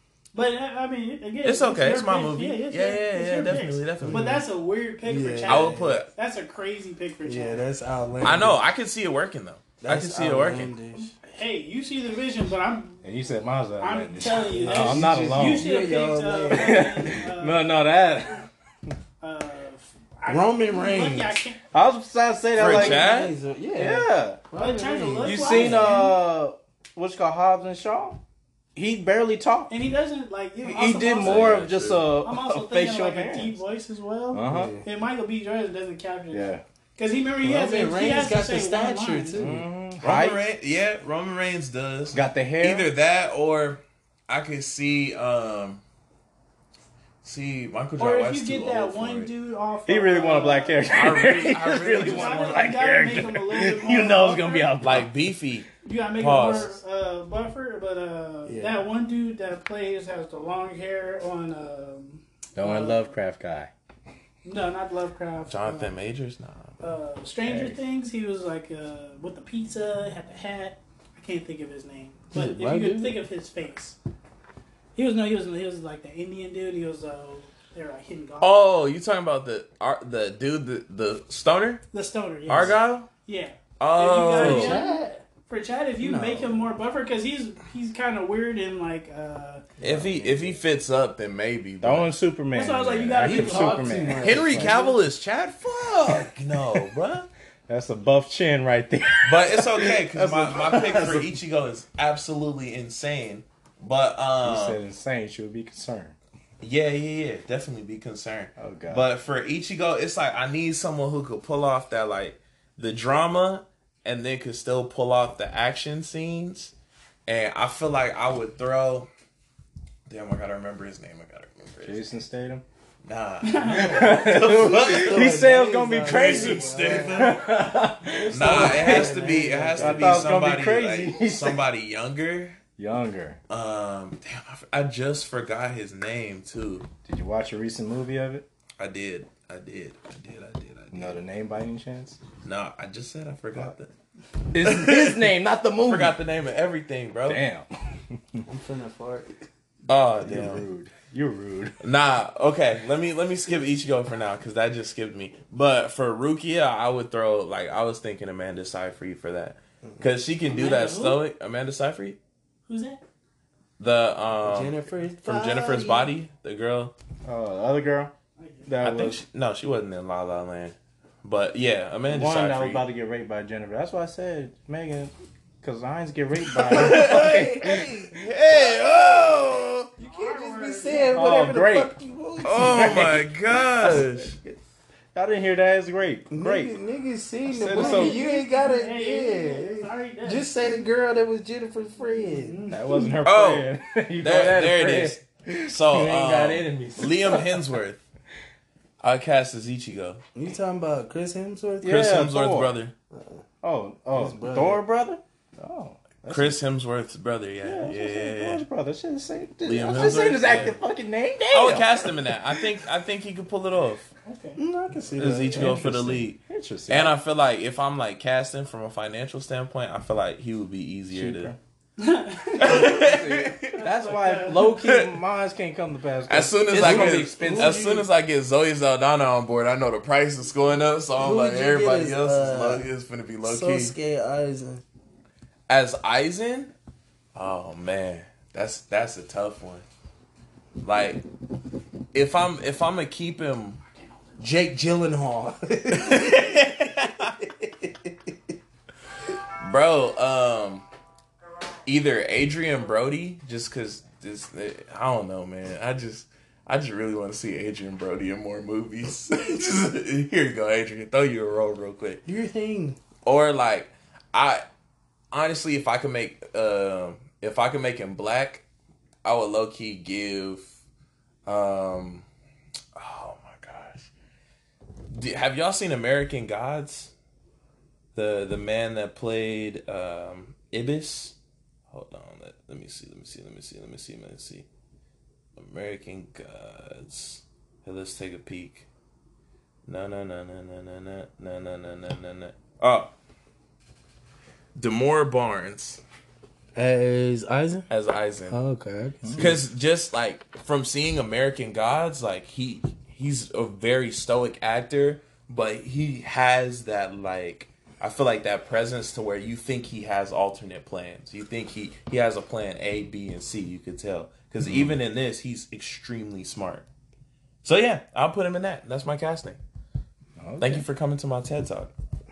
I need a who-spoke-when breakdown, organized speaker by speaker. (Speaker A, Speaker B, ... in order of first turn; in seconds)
Speaker A: 0.3-7.7, 11.0-13.0, 13.8-17.7, 19.2-21.6, 24.6-26.2, 29.7-31.6, 32.2-39.5, 48.0-51.3, 52.0-54.8, 55.8-63.1, 64.5-65.9, 66.8-74.0, 75.0-78.6, 81.9-89.7, 92.5-94.2, 123.4-124.2, 160.5-161.2, 162.7-163.0, 168.4-168.7, 180.0-181.4, 187.7-190.6, 192.1-193.2, 214.2-214.6, 222.0-223.0, 223.7-224.7
Speaker B: 1.4-4.3, 5.5-6.1, 8.2-10.7, 22.6-23.4, 31.2-32.0, 40.0-45.8, 47.2-49.3, 50.9-52.7, 54.8-55.7, 56.2-56.8, 65.5-66.8, 78.4-81.8, 82.5-83.1, 83.8-84.8, 89.8-92.1, 94.2-97.3, 99.2-104.8, 106.6-116.7, 117.3-119.1, 120.1-122.1, 123.0-127.4, 128.3-132.6, 133.5-136.9, 138.8-141.2, 142.4-143.9, 144.6-145.2, 145.9-147.4, 149.9-150.7, 151.8-162.2, 163.8-166.9, 168.8-172.8, 176.5-179.9, 182.4-184.4, 193.2-193.7, 194.2-198.0, 199.0-200.2, 201.8-202.9, 206.3-208.6, 209.7-210.8, 211.5-214.1, 215.2-221.6, 222.6-223.8, 224.7-225.2, 226.3-233.9, 235.7-236.7, 237.3-239.8, 240.8-241.2, 242.1-243.8, 245.9-247.3, 249.6-250.9, 251.9-262.2, 263.2-264.6, 265.3-268.6, 269.2-270.7, 271.5-272.2, 273.0-274.1, 275.1-277.1, 278.1-281.4, 281.9-284.7, 285.6-288.9, 289.9-293.1, 294.8-296.0, 297.9-298.6, 299.4-316.9, 317.6-319.6, 320.6-321.9
Speaker C: 4.0-4.4, 5.0-6.0, 7.2-8.6, 9.8-11.1, 14.4-17.2, 20.3-21.4, 22.6-26.1, 34.5-34.9, 37.4-39.6, 58.5-58.8, 72.3-73.2, 84.3-85.2, 86.0-86.5, 93.2-95.0, 124.0-127.4, 128.2-130.5, 148.5-149.4, 164.4-166.1, 176.7-179.4, 180.0-183.3, 186.3-192.6, 200.3-201.9, 203.1-203.4, 204.1-204.8, 214.6-216.2, 226.7-228.1, 231.2-232.9, 233.4-234.8, 244.4-246.9, 247.4-248.2, 262.2-263.0, 296.8-297.9, 298.5-299.6
Speaker D: 13.0-15.7, 16.5-18.4, 21.7-23.1, 23.8-24.4, 25.2-28.2, 28.8-29.7, 30.6-33.6, 34.3-34.8, 36.3-36.6, 39.4-40.4, 42.1-42.9, 49.9-55.2, 62.6-63.7, 67.5-67.8, 89.8-90.6, 91.8-94.8, 97.7-101.3, 104.4-106.2, 108.6-109.1, 121.8-122.6, 123.7-129.2, 129.8-131.7, 132.8-133.4, 137.1-138.5, 140.9-142.2, 144.5-146.2, 147.3-148.4, 150.2-151.8, 167.2-168.1, 168.7-169.2, 172.1-177.9, 181.1-181.9, 182.5-183.3, 183.8-184.1, 185.1-186.7, 187.5-188.2, 192.7-197.8, 201.8-202.7, 203.6-206.6, 207.6-212.8, 215.5-217.2, 221.1-221.6, 222.7-228.0, 299.2-299.5, 314.6-315.0, 320.4-320.9